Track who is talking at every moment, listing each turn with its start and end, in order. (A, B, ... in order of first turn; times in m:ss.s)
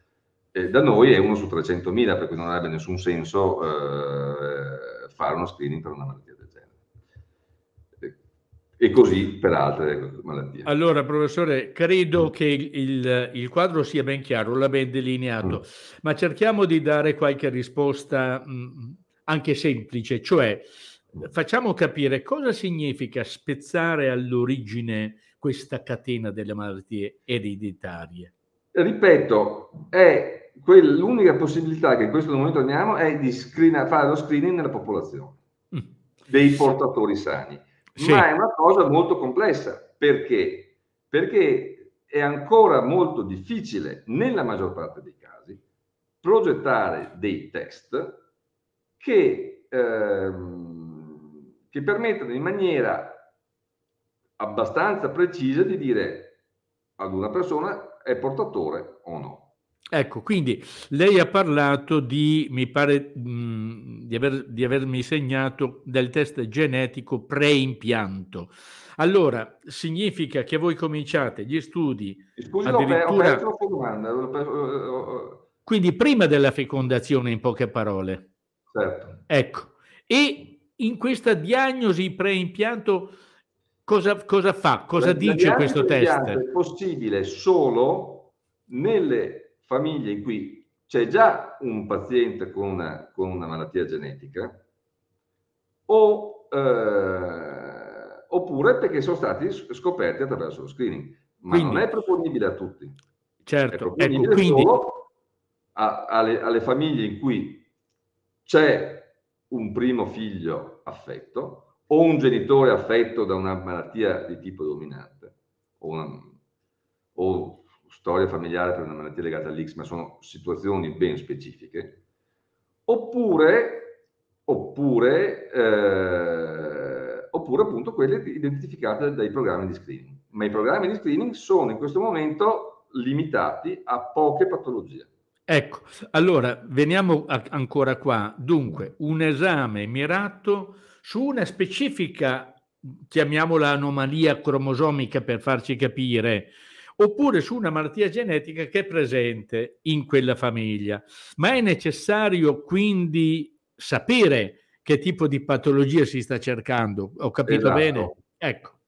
0:00.5-0:06.8 A
0:08.8-0:10.7 A
0:10.6-0:28.3 B
0:28.7-0:35.4 A
0:36.3-0:45.6 A
0:38.0-0:38.3 B
0:46.2-0:48.2 A
0:49.0-0:53.3 A
0:54.4-0:56.4 A
0:57.0-0:59.5 A
0:59.9-1:13.4 B
1:12.4-1:15.4 A
1:15.6-1:18.3 B
1:18.7-1:19.2 A
1:19.3-1:23.2 B
1:23.8-1:26.4 B
1:25.0-1:34.6 A
1:35.9-1:43.0 A
1:41.5-1:41.9 B
1:43.4-1:44.7 B
1:43.7-1:45.1 A
1:45.7-1:47.7 A
1:48.4-1:56.4 A
1:57.2-2:02.0 A
2:02.9-2:15.1 A
2:15.5-2:38.8 B
2:37.4-2:38.2 A